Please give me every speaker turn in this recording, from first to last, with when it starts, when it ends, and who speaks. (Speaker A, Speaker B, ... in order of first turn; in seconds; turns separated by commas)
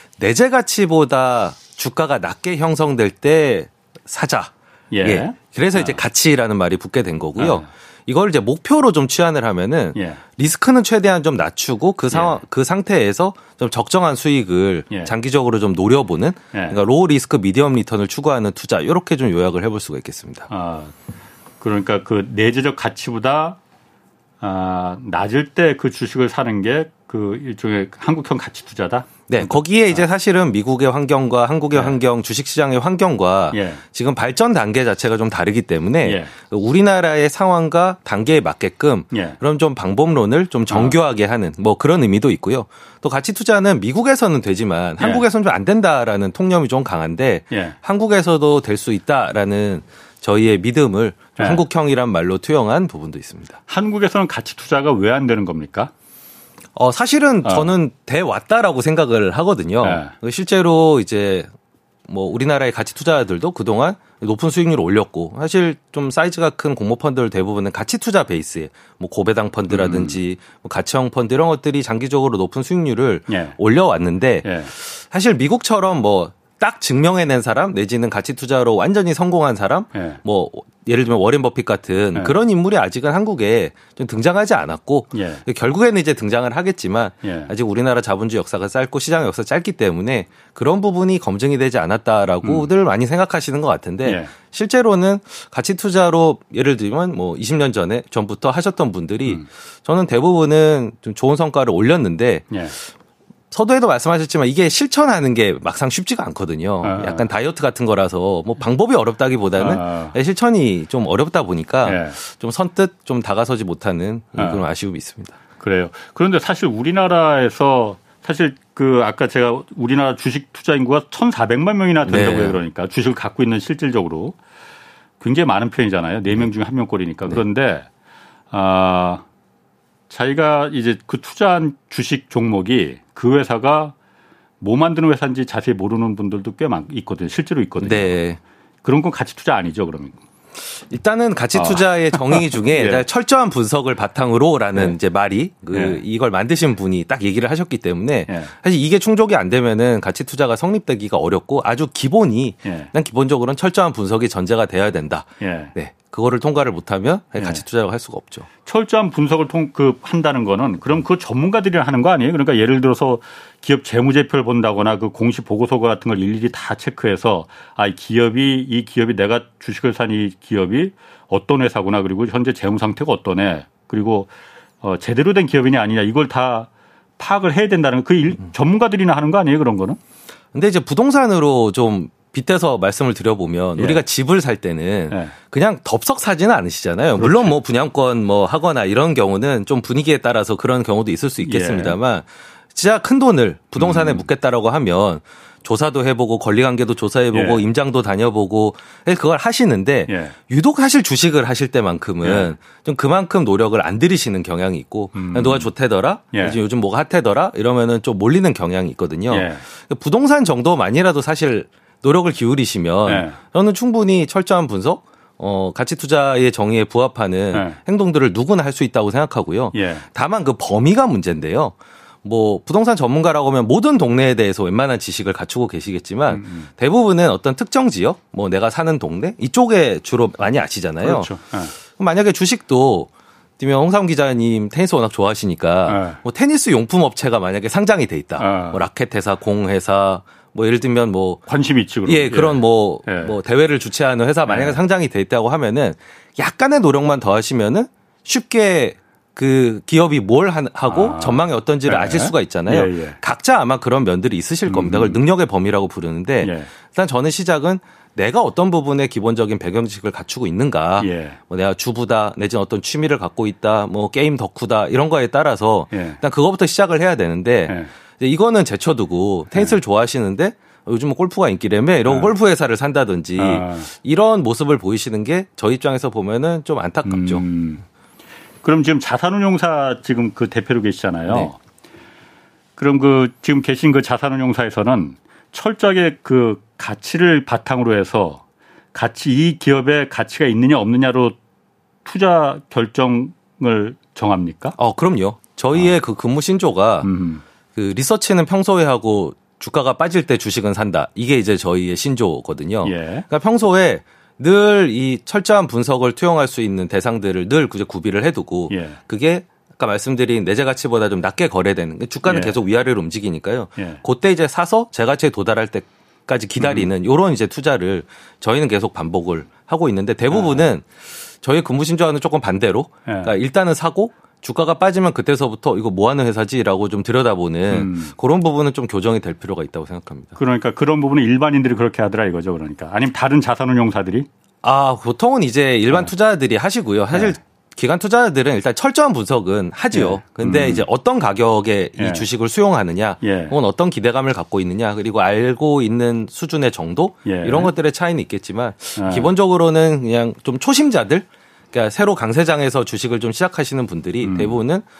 Speaker A: 0.2-20.5, Speaker B: 4.9-6.0, Speaker B: 7.4-7.7, Speaker B: 9.9-10.2, Speaker B: 12.1-12.3, Speaker B: 16.5-16.8, Speaker B: 20.5-20.9, Speaker B: 21.6-23.6, Speaker B: 24.4-29.6, Speaker A: 29.3-53.6, Speaker B: 33.5-33.8, Speaker B: 36.0-36.3, Speaker B: 39.1-39.4, Speaker B: 40.7-41.0, Speaker B: 47.5-47.8, Speaker B: 51.4-51.6, Speaker B: 53.7-55.9, Speaker A: 56.8-61.5, Speaker B: 59.8-60.1, Speaker A: 62.1-102.9, Speaker B: 69.7-70.2, Speaker B: 73.3-73.6, Speaker B: 74.4-74.7, Speaker B: 79.9-80.2, Speaker B: 85.1-85.4, Speaker B: 87.2-87.5, Speaker B: 92.4-92.7, Speaker B: 94.0-94.3, Speaker A: 103.5-115.4, Speaker B: 106.8-107.2, Speaker B: 109.6-110.1, Speaker B: 111.8-112.2, Speaker B: 114.4-114.6, Speaker B: 115.6-124.4, Speaker A: 122.1-122.6, Speaker B: 125.2-127.9, Speaker B: 128.5-129.2, Speaker B: 130.1-133.9, Speaker B: 134.6-138.2, Speaker A: 137.8-138.4, Speaker B: 138.8-140.2, Speaker A: 140.9-158.5, Speaker B: 141.6-143.1, Speaker B: 145.7-146.0, Speaker B: 152.6-152.9, Speaker B: 155.4-155.7, Speaker B: 157.4-157.6, Speaker B: 158.6-180.0, Speaker A: 180.5-231.3, Speaker B: 183.8-184.0, Speaker B: 185.1-185.3, Speaker B: 187.2-187.6, Speaker B: 191.4-191.9, Speaker B: 193.8-194.2, Speaker B: 197.3-197.6, Speaker B: 200.1-200.4, Speaker B: 202.2-202.5, Speaker B: 205.1-205.7, Speaker B: 206.3-206.6, Speaker B: 209.3-209.6, Speaker B: 213.1-213.4, Speaker B: 217.5-217.8, Speaker B: 219.7-220.1, Speaker B: 226.3-226.7, Speaker B: 231.0-231.7, Speaker A: 231.9-241.4, Speaker B: 235.9-236.2, Speaker B: 238.4-238.8, Speaker B: 241.5-243.3, Speaker A: 242.1-277.4, Speaker B: 244.5-244.8, Speaker B: 250.9-253.2, Speaker B: 254.7-255.2, Speaker B: 256.4-256.7, Speaker B: 261.0-261.4, Speaker B: 265.9-266.2, Speaker B: 272.1-272.3, Speaker B: 273.4-273.9, Speaker B: 277.1-277.8, Speaker B: 278.6-281.6, Speaker B: 282.8-291.4, Speaker B: 292.1-294.8, Speaker A: 294.8-297.1, Speaker B: 297.0-297.4, Speaker A: 297.8-320.9, Speaker B: 302.8-303.3, Speaker B: 308.7-309.0, Speaker B: 312.2-312.6, Speaker B: 313.8-314.0, Speaker B: 316.6-316.9, Speaker B: 320.3-320.7, Speaker A: 321.4-330.4, Speaker B: 323.1-323.3, Speaker B: 327.7-328.1, Speaker B: 330.4-334.3, Speaker A: 334.6-354.8, Speaker B: 339.9-340.9, Speaker B: 342.0-342.2, Speaker B: 343.2-343.6, Speaker B: 347.3-347.7, Speaker B: 348.9-349.3, Speaker B: 354.2-354.6